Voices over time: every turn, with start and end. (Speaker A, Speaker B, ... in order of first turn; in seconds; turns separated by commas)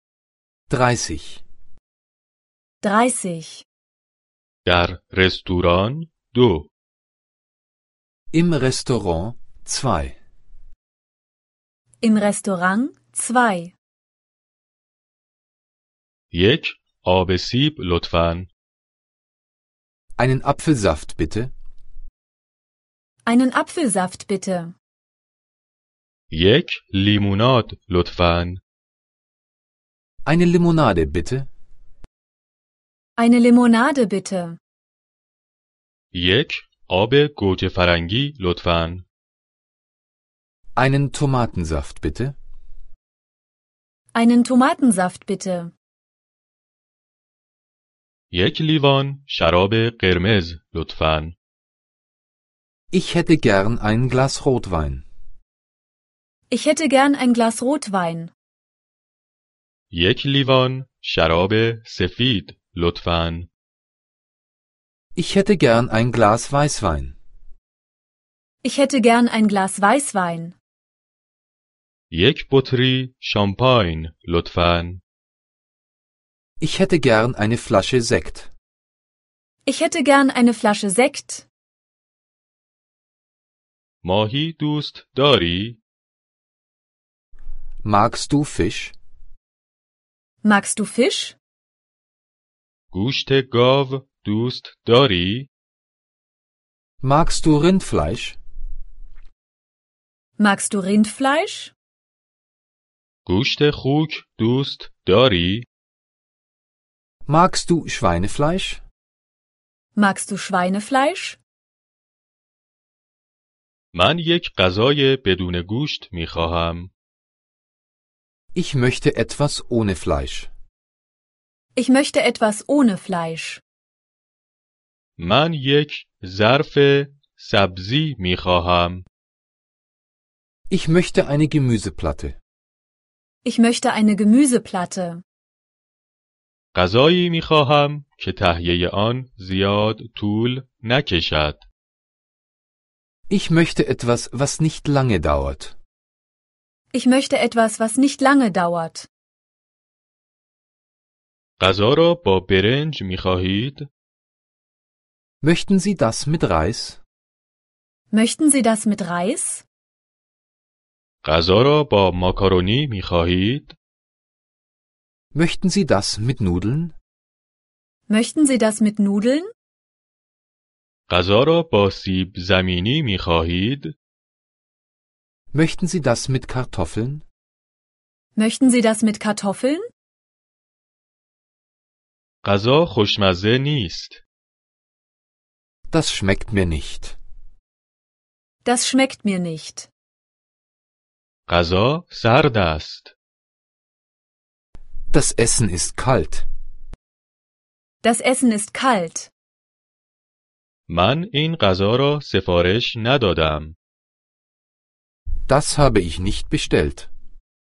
Speaker A: 0.7-1.4, Speaker B: 2.8-3.6, Speaker C: 4.7-6.7, Speaker A: 8.3-10.2, Speaker B: 12.0-13.7, Speaker C: 16.3-18.5, Speaker A: 20.2-21.5, Speaker B: 23.2-24.7, Speaker C: 26.3-28.6, Speaker A: 30.2-31.5, Speaker B: 33.2-34.6, Speaker C: 36.1-39.0, Speaker A: 40.8-42.4, Speaker B: 44.1-45.7, Speaker C: 48.3-51.4, Speaker A: 52.9-55.0, Speaker B: 56.5-58.3, Speaker C: 59.9-63.5, Speaker A: 65.1-67.2, Speaker B: 68.6-70.5, Speaker C: 72.1-75.0, Speaker A: 76.6-78.5, Speaker B: 79.6-81.5, Speaker C: 84.0-85.8, Speaker A: 87.8-88.9, Speaker B: 90.4-91.3, Speaker C: 92.9-95.5, Speaker A: 97.0-98.4, Speaker B: 100.4-101.7, Speaker C: 103.2-105.7, Speaker A: 107.2-108.8, Speaker B: 110.0-111.4, Speaker C: 113.9-116.9, Speaker A: 118.5-120.5, Speaker B: 121.7-123.6, Speaker C: 125.2-129.1, Speaker A: 130.7-132.4, Speaker B: 133.4-135.2, Speaker C: 136.7-141.7, Speaker A: 143.3-145.8, Speaker B: 146.9-149.1, Speaker C: 151.6-153.9, Speaker A: 155.4-157.0, Speaker B: 158.1-159.6, Speaker C: 161.2-163.8, Speaker A: 165.3-166.9, Speaker B: 168.1-169.5, Speaker C: 171.1-173.9, Speaker A: 175.5-177.2, Speaker B: 178.3-179.8, Speaker C: 182.4-184.2, Speaker A: 185.9-187.2, Speaker B: 188.6-189.9, Speaker C: 191.5-193.1, Speaker A: 195.1-196.5, Speaker B: 198.0-199.3, Speaker C: 200.9-203.8, Speaker A: 205.5-207.1